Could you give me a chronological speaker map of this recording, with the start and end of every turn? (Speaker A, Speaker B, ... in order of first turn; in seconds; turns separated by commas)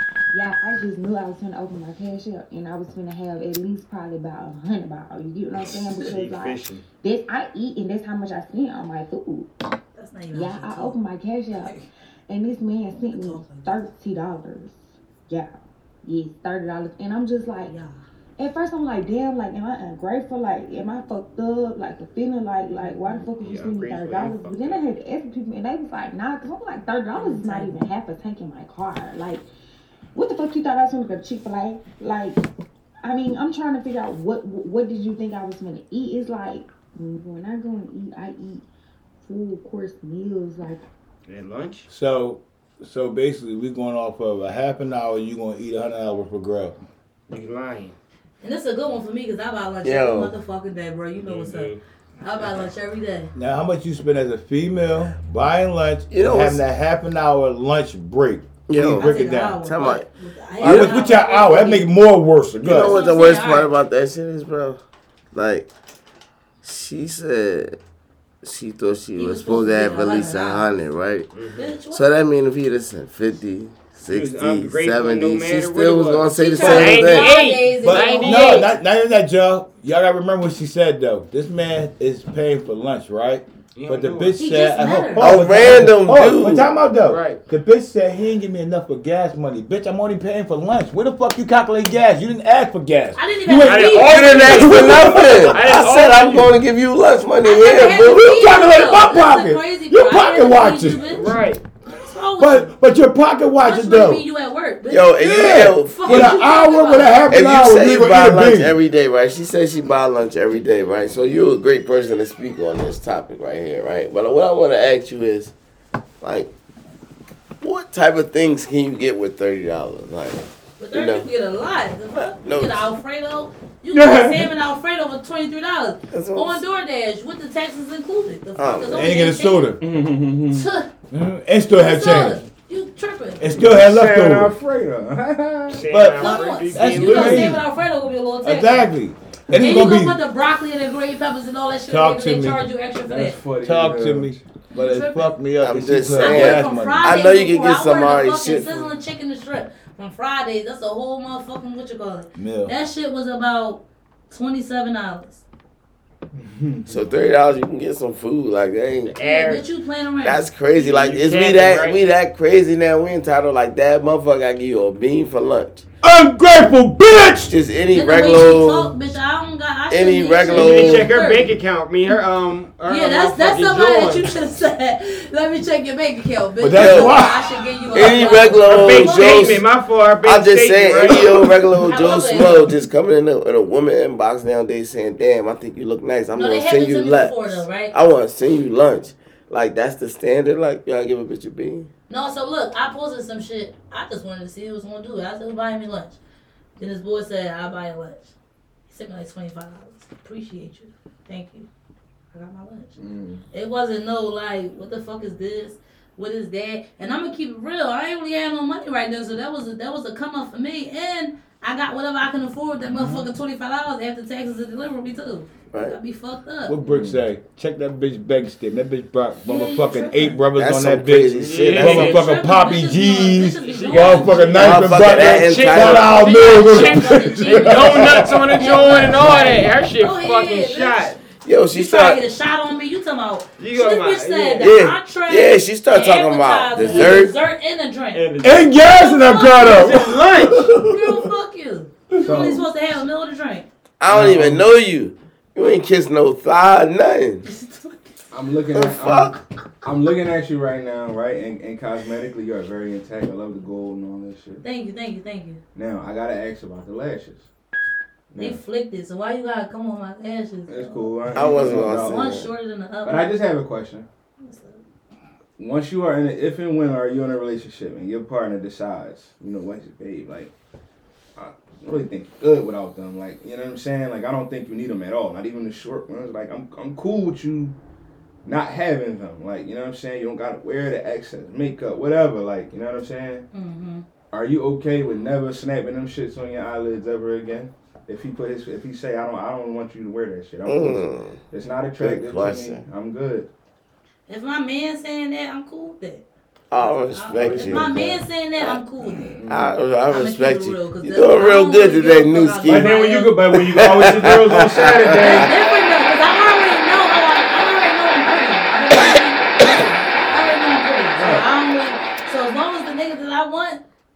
Speaker A: 0.3-9.5, Speaker B: 5.5-6.8, Speaker C: 9.9-10.9, Speaker A: 10.3-11.8, Speaker C: 11.5-11.9, Speaker A: 12.3-15.5, Speaker C: 12.9-13.7, Speaker A: 16.0-17.7, Speaker C: 17.6-18.0, Speaker A: 18.4-29.4, Speaker B: 23.0-24.8, Speaker C: 27.1-27.9, Speaker A: 30.1-32.4, Speaker A: 33.0-38.6, Speaker A: 39.2-40.8, Speaker B: 41.3-41.9, Speaker D: 41.9-46.8, Speaker B: 47.3-47.9, Speaker C: 48.4-53.3, Speaker E: 49.8-50.3, Speaker B: 51.2-51.8, Speaker D: 53.3-59.6, Speaker E: 56.1-56.6, Speaker E: 58.7-60.0, Speaker C: 58.9-61.9, Speaker E: 60.6-61.0, Speaker D: 60.6-63.0, Speaker E: 62.6-64.8, Speaker C: 62.8-63.7, Speaker E: 65.3-65.7, Speaker E: 66.6-67.8, Speaker E: 68.4-71.3, Speaker C: 69.2-70.7, Speaker B: 71.3-71.7, Speaker C: 71.5-72.1, Speaker E: 71.9-77.3, Speaker B: 74.1-78.7, Speaker C: 76.3-78.7, Speaker D: 77.8-95.7, Speaker B: 83.8-84.4, Speaker C: 84.3-85.3, Speaker E: 85.2-86.7, Speaker B: 85.3-85.9, Speaker B: 87.0-87.4, Speaker C: 93.1-95.0, Speaker B: 93.6-96.5, Speaker E: 94.1-98.4, Speaker C: 97.4-101.3, Speaker D: 98.0-101.2, Speaker B: 101.1-101.6, Speaker C: 101.9-102.7, Speaker D: 102.4-104.2, Speaker C: 103.6-107.2, Speaker E: 104.9-106.3, Speaker D: 105.2-108.8, Speaker E: 107.3-115.5, Speaker E: 116.2-116.5, Speaker E: 117.6-121.3, Speaker C: 120.8-129.8, Speaker E: 122.1-122.9, Speaker F: 123.9-124.5, Speaker E: 126.1-126.6, Speaker E: 128.6-129.1, Speaker D: 128.9-129.8, Speaker F: 129.8-130.7, Speaker C: 130.5-130.9, Speaker D: 131.1-132.4, Speaker C: 131.8-133.6, Speaker D: 133.4-134.5, Speaker F: 133.6-135.9, Speaker B: 135.7-137.6, Speaker D: 135.9-137.6, Speaker C: 136.2-138.9, Speaker D: 138.4-140.2, Speaker C: 139.5-143.4, Speaker D: 141.9-142.6, Speaker F: 143.0-144.4, Speaker D: 143.6-147.2, Speaker C: 144.7-145.3, Speaker E: 145.6-148.9, Speaker C: 146.1-155.4, Speaker D: 152.3-152.7, Speaker F: 156.4-157.0, Speaker E: 156.9-159.2, Speaker B: 159.0-159.7, Speaker C: 159.2-160.5, Speaker E: 160.2-165.8, Speaker B: 160.7-162.0, Speaker D: 166.0-167.5, Speaker E: 167.4-168.9, Speaker C: 167.9-171.6, Speaker E: 169.9-171.2, Speaker B: 170.5-174.3, Speaker C: 172.9-179.6, Speaker D: 176.6-177.6, Speaker E: 176.7-177.2, Speaker E: 177.9-179.7, Speaker B: 178.0-182.7, Speaker E: 180.2-191.9, Speaker C: 181.8-182.6, Speaker C: 186.3-187.9, Speaker C: 192.1-196.2, Speaker C: 196.8-198.3, Speaker C: 198.9-201.7, Speaker C: 202.3-203.0, Speaker F: 203.0-203.4, Speaker C: 203.5-216.7, Speaker D: 212.9-213.2, Speaker E: 215.7-216.0, Speaker D: 216.6-229.0, Speaker F: 216.9-217.2, Speaker C: 219.4-220.3, Speaker E: 220.5-222.2, Speaker B: 221.3-222.2, Speaker C: 221.8-225.0, Speaker B: 223.6-231.2, Speaker E: 224.6-226.4, Speaker C: 226.0-231.2, Speaker E: 231.4-232.2, Speaker C: 231.7-243.7, Speaker B: 233.6-234.7, Speaker E: 234.6-237.3, Speaker D: 236.8-237.3, Speaker B: 238.1-238.7, Speaker D: 238.4-241.3, Speaker B: 239.8-240.7, Speaker D: 242.1-242.5, Speaker F: 242.2-242.7, Speaker E: 244.0-247.4, Speaker F: 244.1-244.6, Speaker C: 247.4-248.1, Speaker F: 248.3-254.6, Speaker E: 248.7-249.4, Speaker C: 254.6-255.6, Speaker F: 255.7-257.5, Speaker F: 258.3-258.6, Speaker C: 258.4-263.4, Speaker F: 260.7-262.4, Speaker E: 261.3-262.5, Speaker F: 263.0-264.1, Speaker C: 264.4-264.8, Speaker F: 265.6-270.5, Speaker F: 271.4-277.7, Speaker F: 278.4-283.4, Speaker C: 283.5-284.0, Speaker F: 284.3-293.5, Speaker E: 290.6-291.4, Speaker E: 292.0-292.8, Speaker C: 294.3-296.2, Speaker E: 296.7-297.9, Speaker C: 297.1-299.4, Speaker F: 297.3-298.2, Speaker F: 299.2-299.7, Speaker E: 299.5-303.0, Speaker C: 300.1-303.4, Speaker F: 302.6-305.6, Speaker E: 303.5-305.5, Speaker C: 305.2-313.8, Speaker F: 311.2-311.5